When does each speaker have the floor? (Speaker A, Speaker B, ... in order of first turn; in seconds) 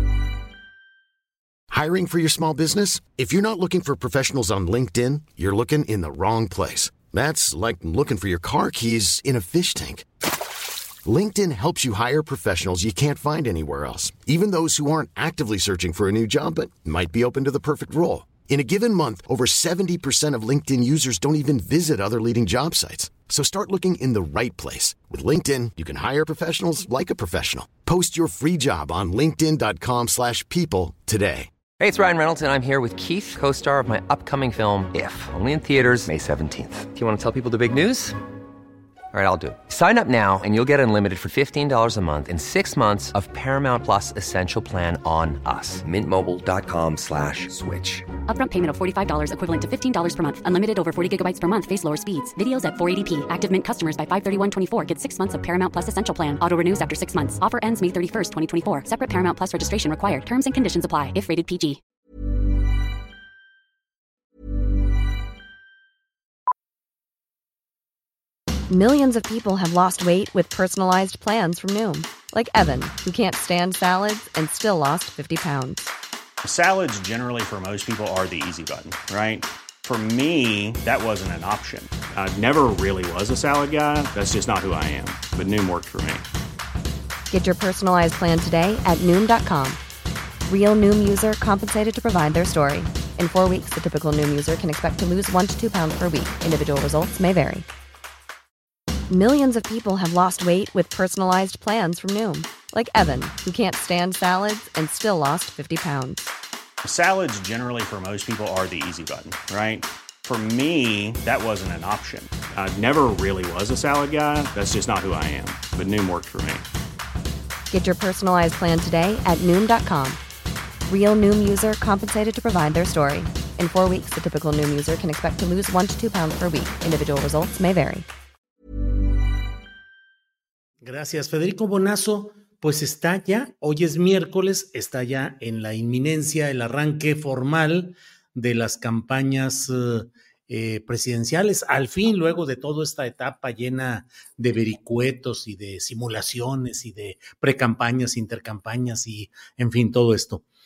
Speaker A: 1.7-10.1, 11.1-31.5
Speaker B: 31.8-38.2, 39.1-48.1
Speaker C: 48.2-61.8
Speaker D: 68.7-75.9, 87.3-89.8, 90.5-97.7, 99.1-106.3, 117.7-120.2, 120.9-128.1
Speaker E: 76.4-86.2, 106.8-116.7
Speaker F: 130.8-150.4